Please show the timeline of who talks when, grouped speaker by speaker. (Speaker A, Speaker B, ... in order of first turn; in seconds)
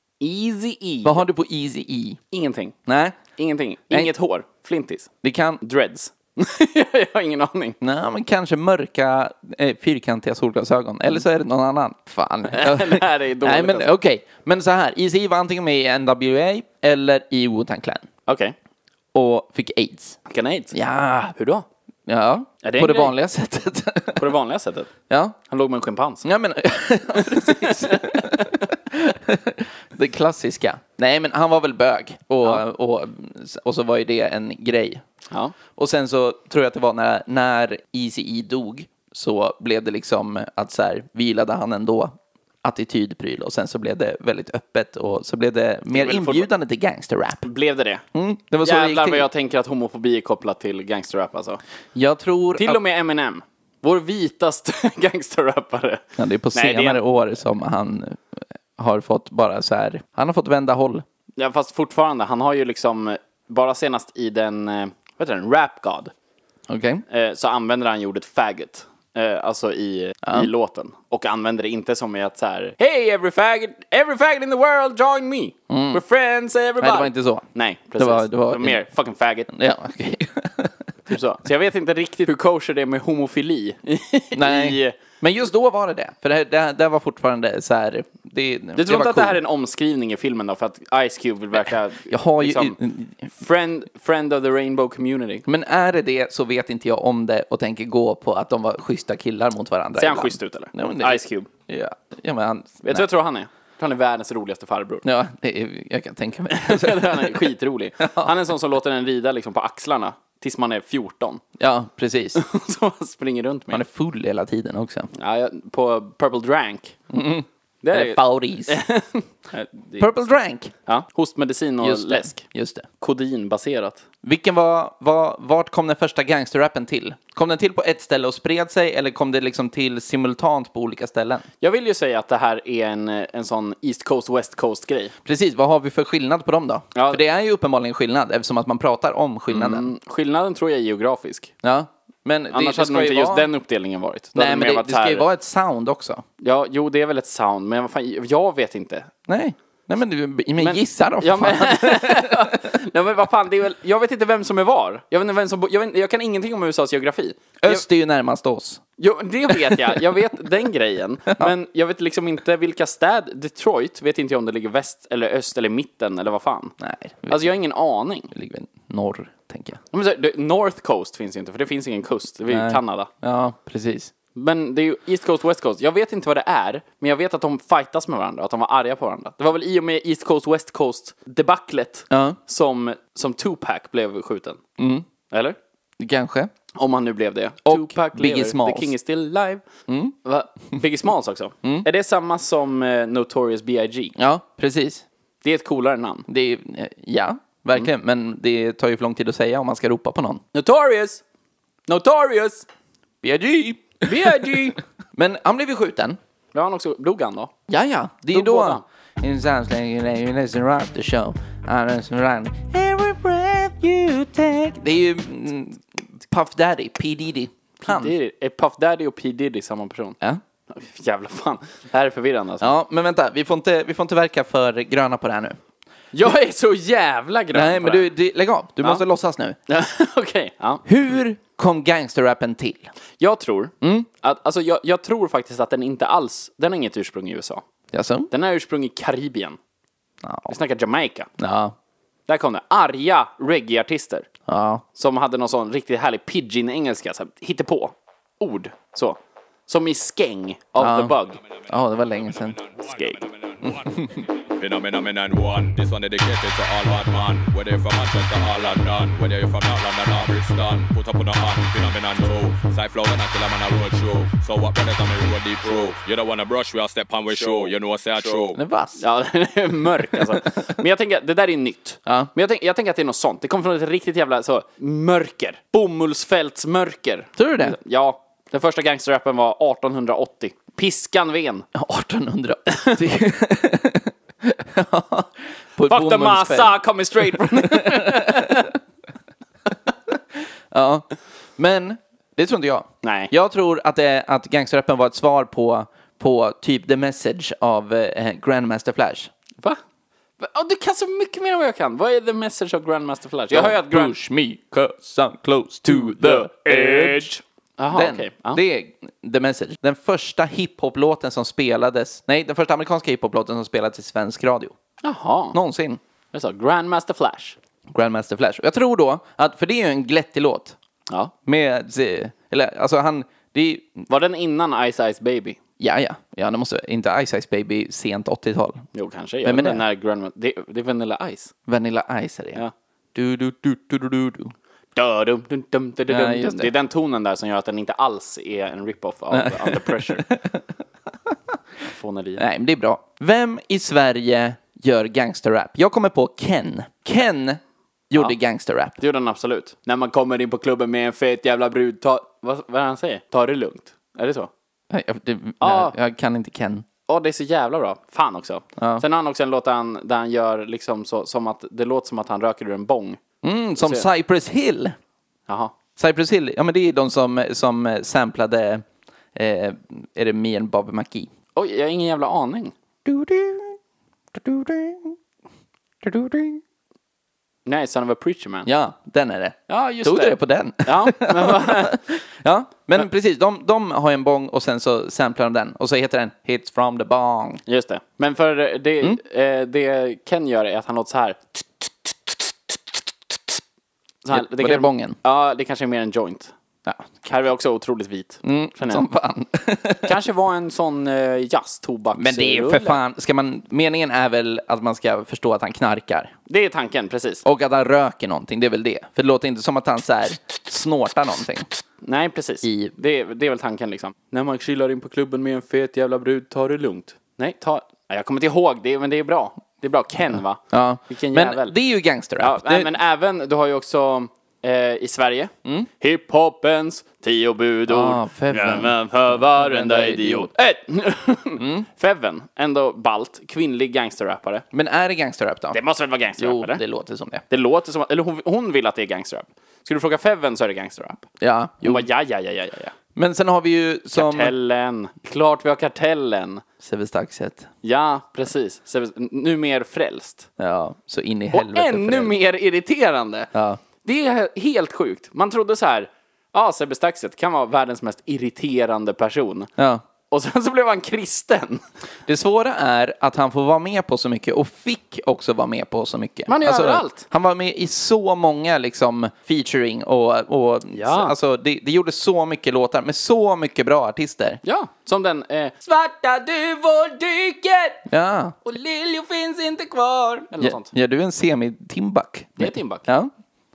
Speaker A: 0.2-1.2, 2.3-2.7, 3.4-5.1, 5.6-7.8, 12.5-13.9, 18.2-18.6, 20.3-20.8, 21.3-21.6, 22.6-23.1, 24.2-24.9, 25.5-26.2, 27.2-28.6, 45.9-46.5, 47.4-48.0, 48.6-51.6, 52.6-57.0, 61.4-66.1, 67.1-79.5, 81.1-85.0, 88.8-92.8, 93.3-95.5, 100.0-101.5, 102.8-105.0, 106.5-111.4, 112.3-113.8, 115.1-117.0, 117.8-120.1, 120.9-122.4, 123.0-124.0, 131.6-135.1, 136.9-137.2, 139.5-141.5, 142.5-145.2, 146.4-149.1, 150.6-157.8, 159.0-166.8, 167.3-168.3, 169.9-173.1, 174.3-184.6, 185.3-185.6, 186.8-189.6, 190.2-194.1, 195.4-196.2, 200.5-201.2, 201.9-202.7, 204.1-204.8, 206.5-207.5, 208.3-208.8, 217.8-220.2, 220.7-222.8, 226.1-228.1, 229.7-230.8, 233.2-237.6, 238.3-239.6, 240.5-241.3, 242.3-244.3, 244.9-251.4, 252.8-253.2, 269.0-281.7, 285.8-288.7, 293.0-293.3, 300.4-304.1, 305.9-308.6, 315.0-315.6, 316.3-317.6, 324.1-325.6, 328.9-331.5, 335.0-340.2, 341.8-342.4, 349.0-354.5, 355.6-355.9, 357.1-363.2, 363.8-364.1, 365.5-365.7, 371.6-372.7, 377.6-378.7, 379.7-382.0, 387.6-392.7, 394.2-396.5, 397.2-399.1, 400.1-403.0, 406.5-407.4, 412.0-421.8, 422.4-434.6, 435.7-436.8, 437.5-441.2, 441.8-442.9, 444.1-446.6, 447.8-450.5, 451.5-453.5, 454.0-459.7, 460.3-461.8, 466.5-467.2, 470.9-471.3, 474.6-478.0, 478.6-480.9, 482.6-483.1
Speaker B: 1.0-2.2, 2.9-3.2, 5.2-5.6, 7.8-18.1, 19.1-20.2, 20.7-21.4, 22.1-24.3, 25.1-25.4, 26.2-35.0, 35.8-47.5, 48.1-49.3, 52.0-52.8, 56.2-58.2, 58.8-61.0, 66.7-67.0, 70.2-70.5, 75.7-76.0, 76.8-78.8, 79.5-80.8, 84.3-89.4, 92.1-93.3, 95.5-103.1, 105.0-107.5, 108.0-108.3, 111.6-112.4, 113.7-115.1, 117.1-118.8, 120.0-120.7, 121.8-122.9, 124.2-131.5, 135.2-139.9, 141.6-143.5, 144.3-146.2, 149.3-152.6, 157.6-158.8, 159.5-160.0, 166.8-167.5, 168.3-169.8, 172.5-174.1, 182.1-182.4, 184.8-185.1, 186.0-186.5, 187.6-188.9, 189.9-190.1, 194.2-195.1, 196.3-200.4, 203.2-206.2, 207.7-218.1, 222.6-225.6, 227.5-229.6, 230.8-232.9, 233.8-234.1, 237.9-238.3, 240.2-240.6, 241.4-241.8, 244.5-244.8, 250.8-252.6, 253.6-254.1, 268.6-269.0, 277.4-277.8, 281.7-288.7, 290.1-291.1, 291.6-299.3, 303.5-307.3, 307.9-314.7, 315.5-316.0, 317.9-320.8, 321.5-324.1, 325.8-328.9, 329.4-329.8, 331.7-332.6, 333.1-334.5, 336.1-336.7, 339.3-340.6, 341.2-341.5, 342.4-349.0, 354.9-356.9, 358.8-359.0, 363.4-365.0, 366.0-371.3, 373.1-373.8, 374.3-375.1, 376.0-376.6, 378.6-387.6, 394.3-395.2, 398.4-400.1, 402.1-406.3, 407.4-411.7, 412.6-412.9, 420.7-422.9, 427.9-430.5, 431.6-431.9, 434.7-435.8, 436.4-437.4, 441.4-442.1, 443.1-444.5, 446.8-447.7, 450.6-452.3, 453.5-453.8, 459.8-460.0, 462.3-474.6, 478.1-478.6, 480.6-483.3
Speaker C: 252.5-268.6